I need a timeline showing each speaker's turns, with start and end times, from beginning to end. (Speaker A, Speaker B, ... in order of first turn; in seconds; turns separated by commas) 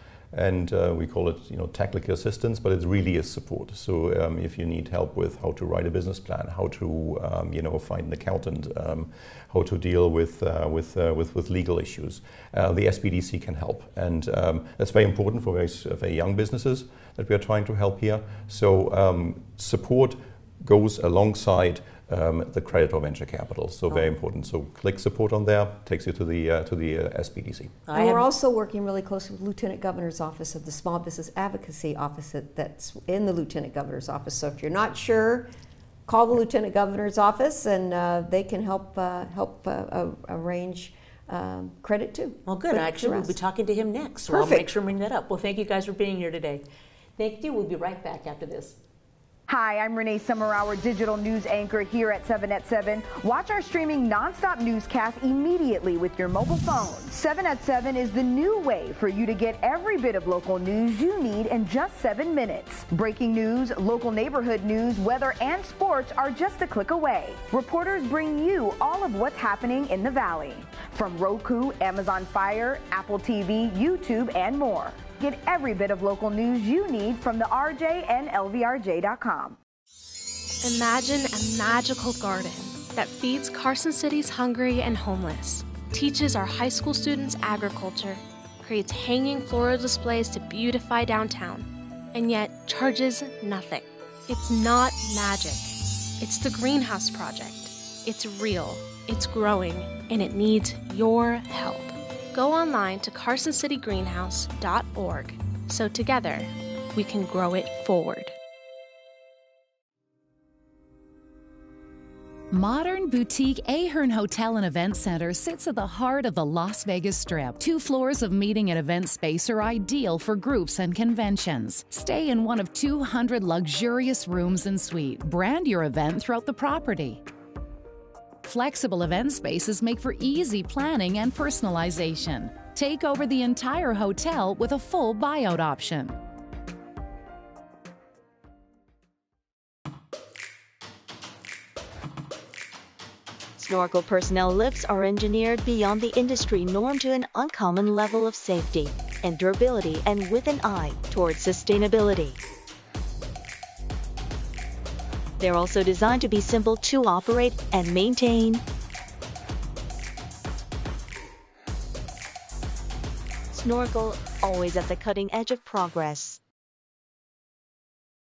Speaker A: 0.3-27.8, Speaker B: 27.9-28.2, Speaker C: 27.9-35.5, Speaker C: 36.0-43.4, Speaker B: 42.5-46.6, Speaker C: 44.3-44.7, Speaker B: 47.2-48.8, Speaker D: 49.5-79.6, Speaker E: 80.6-108.3, Speaker F: 112.5-127.2, Speaker F: 128.4-136.2, Speaker G: 143.6-152.4, Speaker G: 155.4-158.6, Speaker G: 163.5-166.4